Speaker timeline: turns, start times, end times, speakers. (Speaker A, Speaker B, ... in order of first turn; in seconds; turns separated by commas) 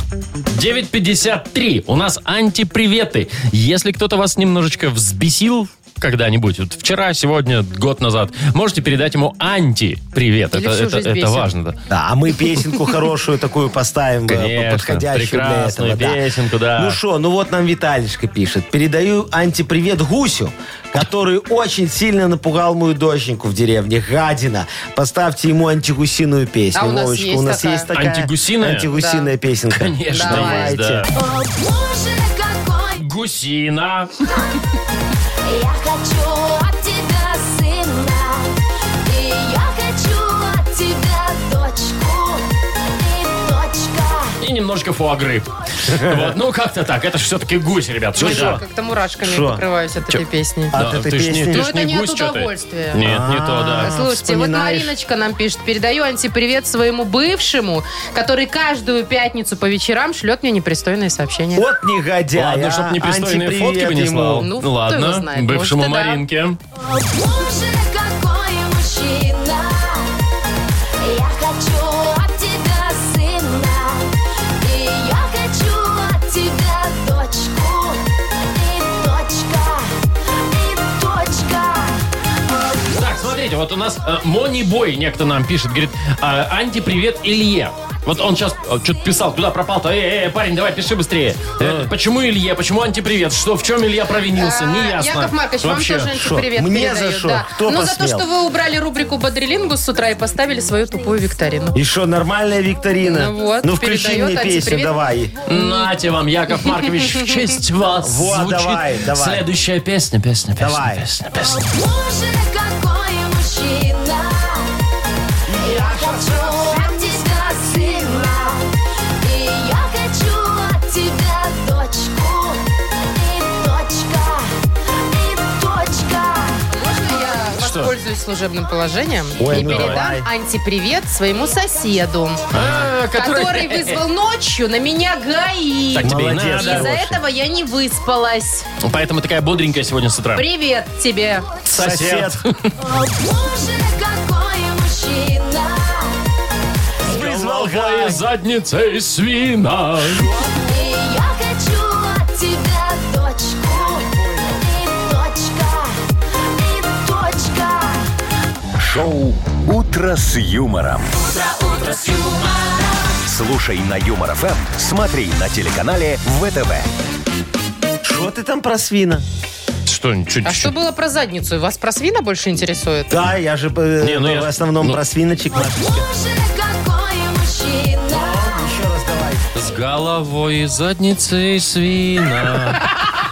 Speaker A: 0.5-11.8, Speaker B: 10.5-11.5, Speaker C: 11.9-16.2, Speaker A: 14.3-17.0, Speaker C: 16.8-31.1, Speaker B: 26.8-27.9, Speaker A: 27.9-28.9, Speaker B: 28.9-29.3, Speaker A: 29.7-31.1, Speaker B: 30.1-30.7, Speaker D: 31.1-33.0, Speaker A: 33.0-34.2, Speaker D: 35.5-38.5, Speaker D: 39.0-44.4, Speaker A: 44.4-48.6, Speaker C: 45.9-46.2, Speaker B: 48.2-50.7, Speaker C: 48.2-48.6, Speaker C: 49.2-49.6, Speaker C: 50.7-51.6, Speaker A: 50.7-53.9, Speaker B: 51.5-53.0, Speaker C: 53.0-55.0, Speaker B: 53.8-61.7, Speaker C: 61.5-64.5, Speaker A: 62.3-66.6, Speaker B: 64.4-66.2, Speaker D: 66.8-70.2, Speaker D: 71.0-79.9, Speaker D: 80.5-82.0, Speaker A: 82.9-96.2, Speaker C: 91.6-91.9, Speaker B: 94.4-101.8, Speaker C: 96.1-98.2, Speaker C: 101.8-105.3, Speaker B: 103.0-105.0, Speaker A: 105.5-111.6, Speaker C: 108.0-109.5, Speaker C: 110.6-111.1, Speaker D: 111.3-114.8, Speaker C: 115.5-118.4, Speaker D: 115.6-118.7, Speaker D: 119.2-124.5, Speaker D: 125.1-126.6, Speaker B: 126.7-132.5, Speaker A: 127.6-127.9, Speaker C: 129.4-130.3, Speaker A: 129.5-130.0, Speaker A: 132.5-134.0, Speaker B: 133.1-138.7, Speaker A: 135.9-136.9, Speaker C: 136.0-137.2, Speaker A: 138.8-140.4, Speaker B: 140.3-141.5, Speaker A: 141.7-142.7, Speaker C: 141.7-142.4, Speaker D: 142.8-146.2, Speaker C: 147.0-148.2, Speaker A: 147.1-150.3, Speaker C: 150.0-150.9, Speaker D: 150.6-156.0, Speaker C: 153.7-154.8, Speaker D: 156.5-158.1, Speaker E: 158.8-161.1, Speaker D: 161.1-163.2, Speaker E: 163.3-166.9, Speaker C: 168.0-169.2, Speaker A: 169.8-170.7, Speaker B: 170.4-173.2, Speaker C: 173.1-176.1, Speaker A: 174.0-175.0, Speaker D: 175.5-178.7, Speaker C: 178.1-179.5, Speaker A: 179.5-182.8